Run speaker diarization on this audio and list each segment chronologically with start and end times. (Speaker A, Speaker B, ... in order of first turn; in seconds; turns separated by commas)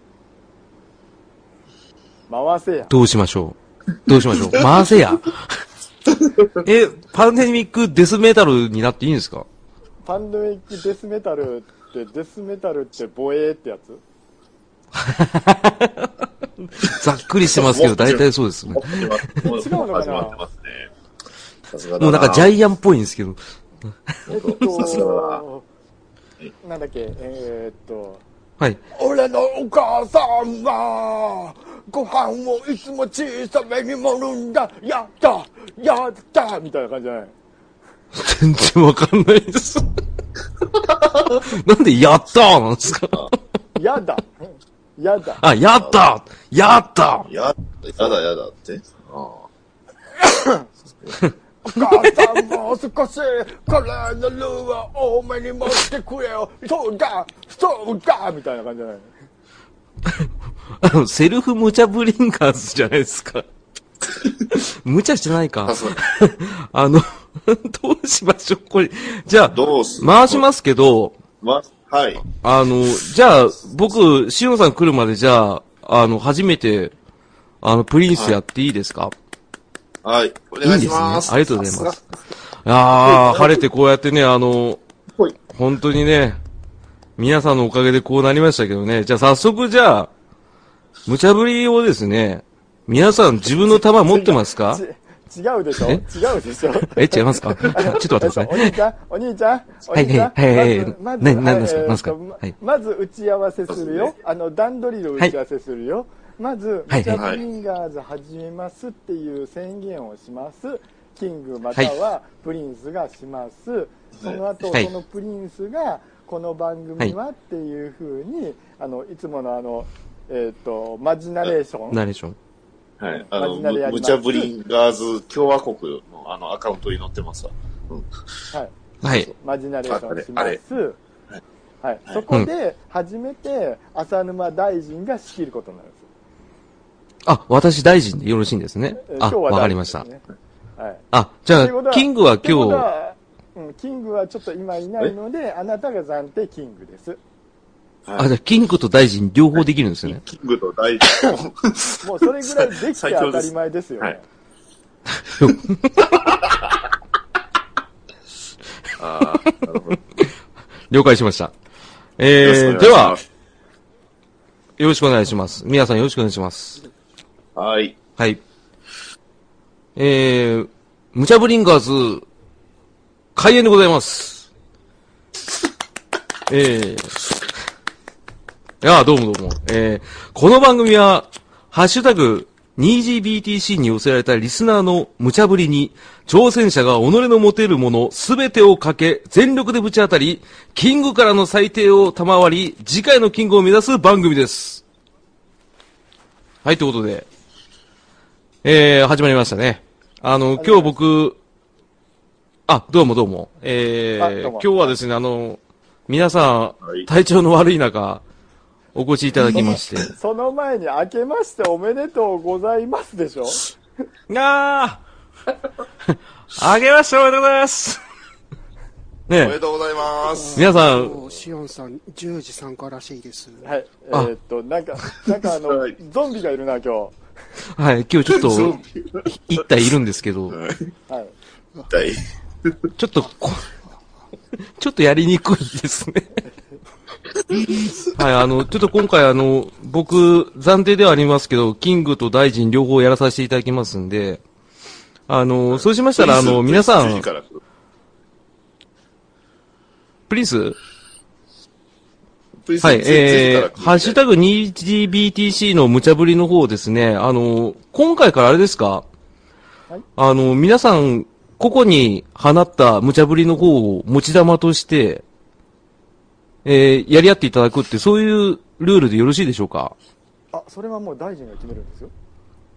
Speaker A: 2.3-3.0, Speaker B: 2.9-5.4, Speaker B: 6.6-9.4, Speaker A: 10.0-14.0, Speaker B: 15.0-16.1, Speaker B: 16.6-19.1, Speaker C: 17.6-20.9, Speaker A: 19.4-20.4, Speaker C: 21.7-22.5, Speaker B: 22.0-23.4, Speaker A: 24.3-25.6, Speaker C: 24.3-25.4, Speaker A: 26.6-28.2, Speaker A: 28.9-37.3, Speaker B: 38.1-39.9, Speaker B: 41.3-43.4, Speaker A: 43.8-45.4, Speaker B: 45.4-47.3, Speaker C: 47.2-49.5, Speaker A: 50.3-50.6, Speaker A: 51.6-59.1, Speaker B: 60.8-63.4, Speaker B: 64.5-71.1, Speaker C: 65.6-66.0, Speaker C: 69.5-70.4, Speaker C: 71.4-72.2, Speaker B: 72.4-76.9, Speaker B: 77.6-79.1, Speaker C: 80.0-82.0, Speaker B: 80.6-82.0, Speaker B: 82.7-84.8, Speaker C: 82.9-83.6, Speaker B: 85.5-86.4, Speaker B: 87.2-90.1, Speaker B: 91.0-94.8, Speaker A: 93.7-122.0, Speaker B: 96.8-98.7, Speaker B: 99.9-102.1, Speaker C: 103.7-104.1, Speaker B: 106.9-107.2, Speaker C: 107.1-107.4, Speaker B: 121.9-122.3, Speaker C: 123.0-128.1, Speaker A: 123.3-124.5, Speaker B: 129.0-129.3, Speaker A: 129.4-131.0, Speaker C: 129.9-130.6, Speaker A: 131.8-136.0, Speaker B: 137.2-140.0, Speaker A: 139.0-140.2, Speaker A: 140.8-147.2, Speaker B: 141.1-142.9, Speaker B: 148.2-150.2, Speaker C: 150.1-152.0, Speaker A: 152.0-154.2, Speaker C: 152.6-154.1, Speaker B: 155.3-155.7, Speaker C: 156.0-156.6, Speaker C: 159.0-160.0, Speaker B: 160.9-161.5, Speaker B: 162.2-163.2, Speaker C: 162.4-163.2, Speaker B: 164.8-166.8, Speaker C: 167.6-168.0, Speaker B: 169.9-172.2, Speaker B: 173.3-174.4, Speaker B: 176.5-177.1, Speaker B: 178.8-194.8, Speaker B: 196.6-197.2, Speaker B: 198.6-201.4, Speaker A: 200.6-200.9, Speaker B: 202.7-208.2, Speaker A: 204.2-204.9, Speaker B: 208.9-210.1, Speaker C: 209.4-209.8, Speaker A: 210.1-213.7, Speaker B: 214.3-215.0, Speaker B: 216.5-218.0, Speaker B: 219.3-219.6, Speaker C: 219.4-220.7, Speaker D: 220.3-223.7, Speaker B: 220.6-221.2, Speaker A: 223.6-227.2, Speaker C: 225.7-225.9, Speaker B: 227.8-230.6, Speaker C: 228.3-229.2, Speaker C: 230.5-230.9, Speaker A: 231.1-231.3, Speaker C: 231.9-232.2, Speaker B: 233.0-233.7, Speaker B: 234.8-236.4, Speaker C: 237.6-237.9, Speaker B: 238.1-244.4, Speaker B: 245.3-247.2, Speaker C: 245.7-247.6, Speaker B: 250.3-250.8, Speaker C: 252.6-254.2, Speaker B: 252.8-259.0, Speaker B: 260.2-265.2, Speaker B: 266.6-269.9, Speaker A: 270.5-272.1